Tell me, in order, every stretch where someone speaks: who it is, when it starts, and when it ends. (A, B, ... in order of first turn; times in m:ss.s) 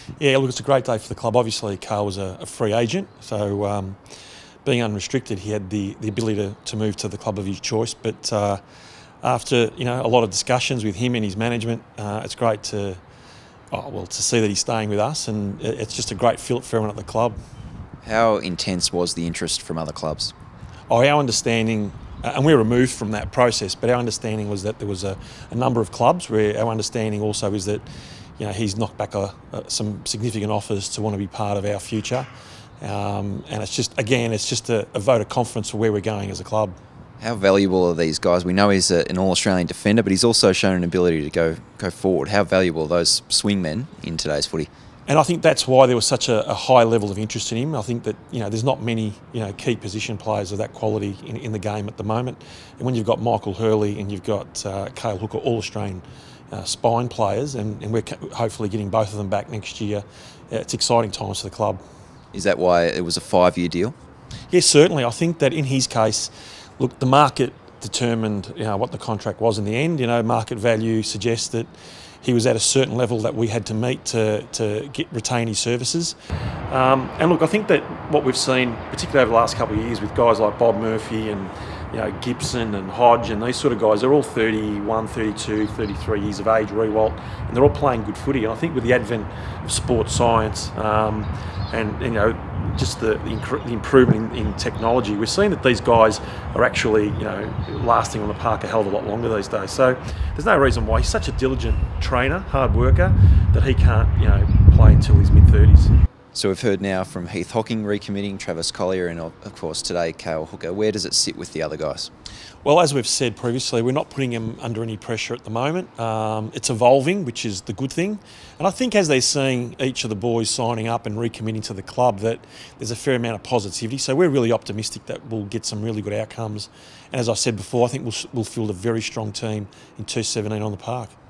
0:00.2-0:04.0 A
0:04.6-0:08.6 A
0:09.2-0:13.0 A
0:13.7-0:17.4 A
0:18.0-0:20.3 B
0:20.9-0:27.9 A
0:28.4-0:32.3 A
0:32.8-0:36.8 A
0:37.2-0:44.7 B
0:45.1-1:01.8 A
1:02.3-1:04.0 B
1:04.5-1:11.7 A
1:12.2-1:16.2 A
1:16.7-1:45.9 A
1:46.3-1:52.1 B
1:52.6-2:11.1 A